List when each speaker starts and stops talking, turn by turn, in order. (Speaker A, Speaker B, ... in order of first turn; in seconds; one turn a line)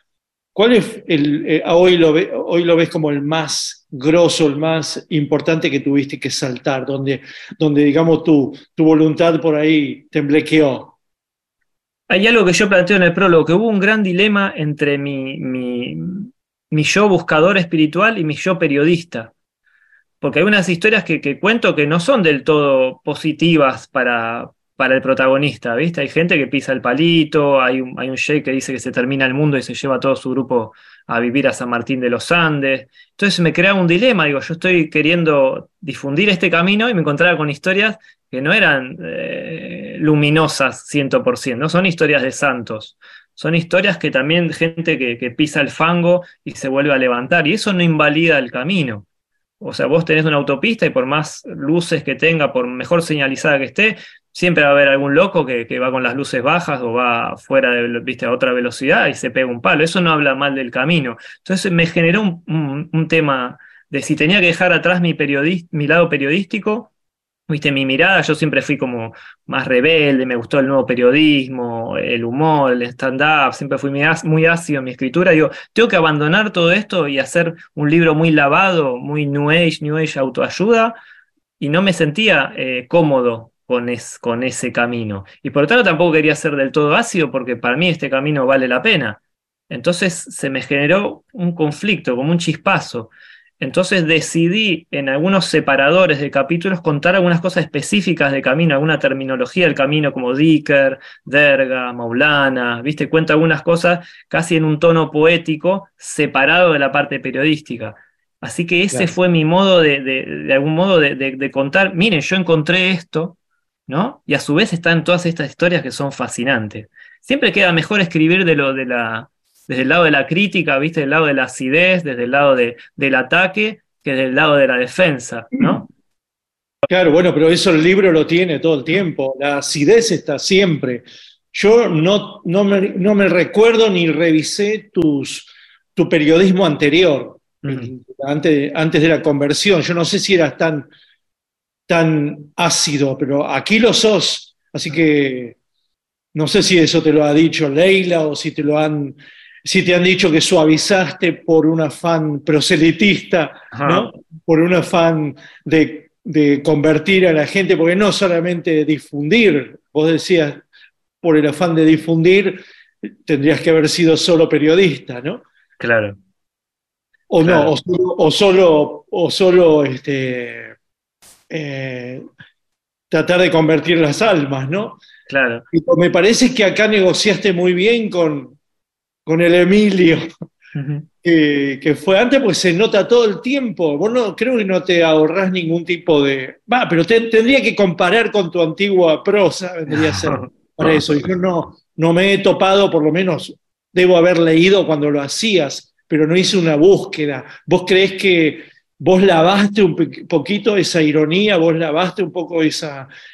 Speaker A: 0.6-10.9
Speaker B: 12.1-19.3
Speaker B: 20.2-49.1
Speaker B: 49.6-66.9
Speaker B: 67.5-81.0
Speaker B: 81.6-113.4
Speaker B: 113.9-125.9
Speaker A: 126.9-140.9
Speaker B: 137.6-137.9
Speaker A: 141.9-145.6
Speaker A: 146.3-160.6
Speaker B: 153.7-154.2
Speaker A: 161.2-162.6
Speaker A: 163.2-165.4
Speaker B: 165.8-166.2
Speaker A: 167.3-170.8
Speaker B: 167.4-167.8
Speaker A: 171.5-172.2
Speaker A: 173.1-175.0
Speaker B: 175.3-175.7
Speaker A: 175.7-178.6
Speaker A: 179.3-180.3
Speaker B: 180.8-181.1
Speaker A: 181.2-203.1
Speaker B: 189.9-191.0